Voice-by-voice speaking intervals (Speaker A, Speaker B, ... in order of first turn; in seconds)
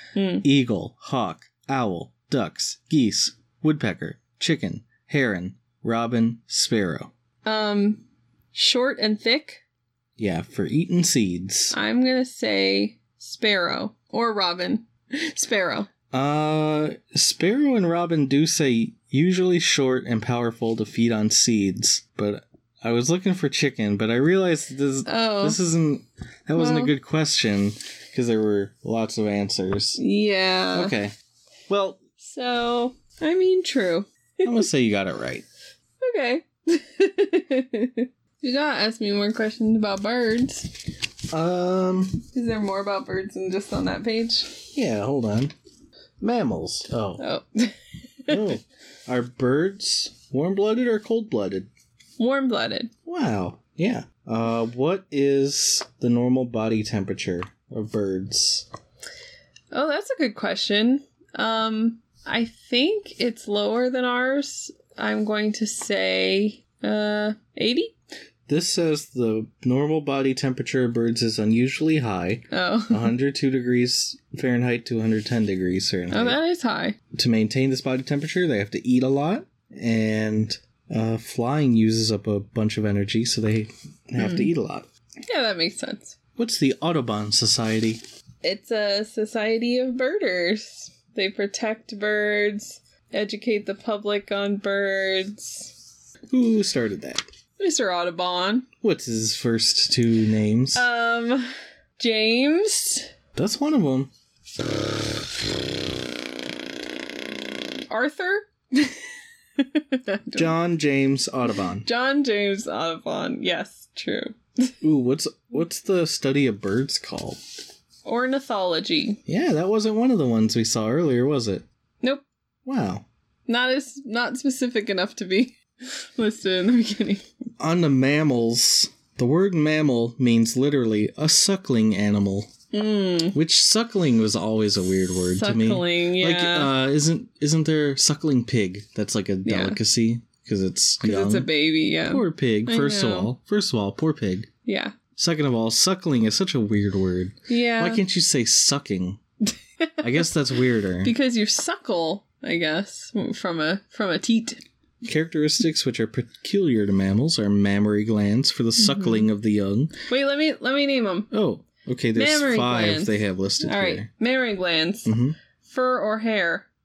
Speaker A: 0.1-0.4, 7.5-8.0, 8.5-9.6, 11.7-15.9, 25.1-25.6, 26.6-26.9, 30.0-30.9, 32.2-34.6, 36.0-40.7, 42.3-44.6, 47.2-48.5, 52.2-52.9, 59.7-67.9, 72.5-73.1, 76.1-77.0, 84.2-84.5, 85.3-86.2, 88.4-95.7, 97.6-98.7, 100.8-103.1, 107.9-109.0, 109.6-110.5, 111.8-114.7, 118.0-119.2, 123.5-127.2, 132.7-133.4, 135.4-136.7, 139.4-139.8, 141.0-143.3, 144.7-145.0, 147.5-148.0, 151.0-154.6, 158.8-159.2, 160.1-161.3, 162.2-166.7
Speaker B: 0.4-7.1, 10.2-11.8, 16.1-30.0, 30.7-31.1, 31.7-32.0, 34.4-35.5, 41.3-42.2, 44.7-45.5, 46.2-47.2, 48.3-51.7, 53.1-58.7, 68.5-76.4, 77.1-84.9, 86.4-88.0, 96.3-97.2, 98.8-100.8, 103.3-104.1, 110.3-111.9, 114.8-117.4, 119.3-121.7, 122.7-123.0, 127.6-132.5, 133.3-141.5, 142.1-144.5, 145.2-149.2, 150.0-151.1, 155.0-159.9, 161.3-164.1, 165.1-165.4